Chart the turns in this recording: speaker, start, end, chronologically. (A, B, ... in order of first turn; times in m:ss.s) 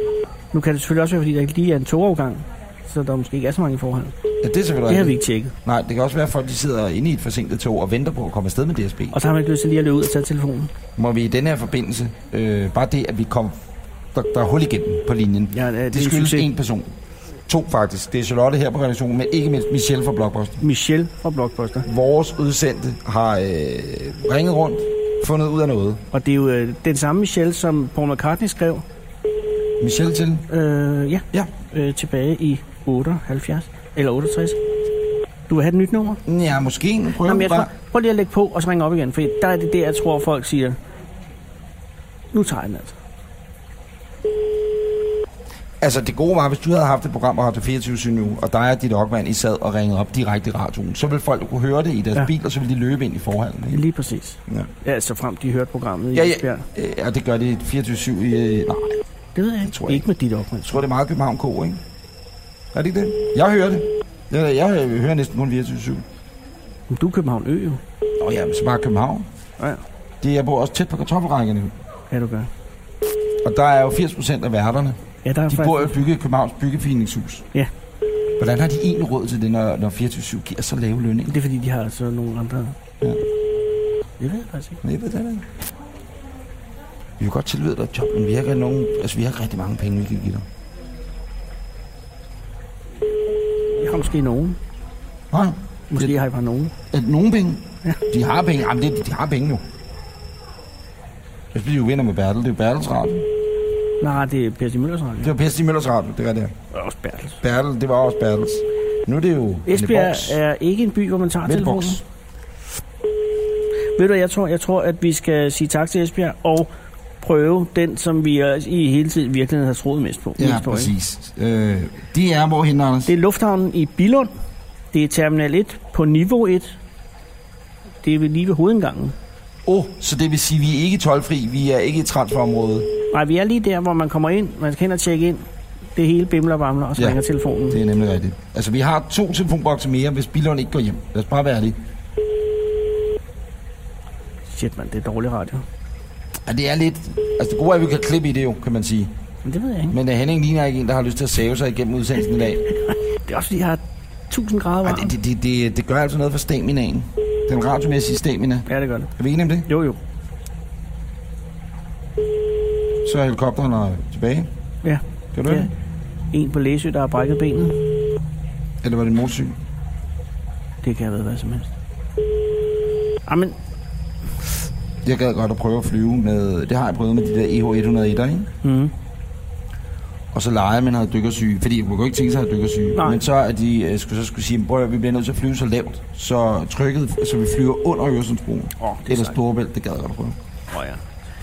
0:00.5-0:04.1 A
0:04.4-0:09.2 B
0:04.9-0:05.5 A
0:09.1-0:10.7 A
0:11.0-0:13.5 B
0:14.1-0:16.9 B
0:15.5-0:16.5 A
0:17.5-0:20.6 B
0:20.6-0:21.9 A
0:21.8-0:26.0 B
0:26.1-0:28.8 A
0:29.8-0:30.5 B
0:30.5-0:34.6 A
0:35.5-0:36.2 A
0:36.3-0:37.7 B
0:37.2-0:40.8 A
0:42.3-0:42.9 A
0:45.8-0:53.8 B
0:53.7-0:56.6 A
0:56.1-0:59.0 B
0:59.3-1:00.8 A
0:59.6-1:00.0 B
1:00.6-1:01.8 B
1:02.7-1:06.0 B
1:06.9-1:07.8 A
1:08.2-1:09.3 B
1:10.2-1:11.7 B
1:12.1-1:12.5 A
1:13.4-1:17.4 B
1:15.2-1:16.0 A
1:18.4-1:21.3 B
1:21.3-1:22.8 A
1:24.2-1:24.8 A
1:24.8-1:25.5 B
1:27.2-1:30.4 B
1:33.8-1:34.6 A
1:35.3-1:36.1 B
1:35.9-1:36.7 A
1:36.9-1:39.6 B
1:41.5-1:43.3 B
1:44.0-1:45.3 A
1:45.2-1:46.5 B
1:46.7-1:47.4 A
1:47.4-1:50.4 B
1:49.6-1:52.0 A
1:51.4-1:52.0 B
1:54.0-1:56.7 A
1:57.2-2:00.9 A
2:00.4-2:03.1 B
2:03.0-2:04.3 A
2:04.9-2:06.8 A
2:08.0-2:09.1 A
2:09.6-2:12.9 B
2:13.1-2:15.4 A
2:16.0-2:17.8 A
2:17.0-2:21.8 B
2:24.5-2:25.6 A
2:26.4-2:29.1 B
2:29.4-2:30.0 A
2:29.9-2:32.6 B
2:32.9-2:35.1 A
2:34.8-2:39.7 B
2:38.7-2:39.1 A
2:39.7-2:40.0 A
2:43.0-2:44.5 B
2:44.8-2:45.7 A
2:45.3-2:45.7 B
2:46.3-2:47.8 A
2:48.8-2:49.6 B
2:50.8-2:51.7 A
2:53.3-2:53.6 A
2:55.0-2:58.5 B
2:58.6-2:58.9 A
3:00.3-3:10.4 B
3:03.0-3:03.2 A
3:08.8-3:09.4 A
3:10.7-3:11.0 A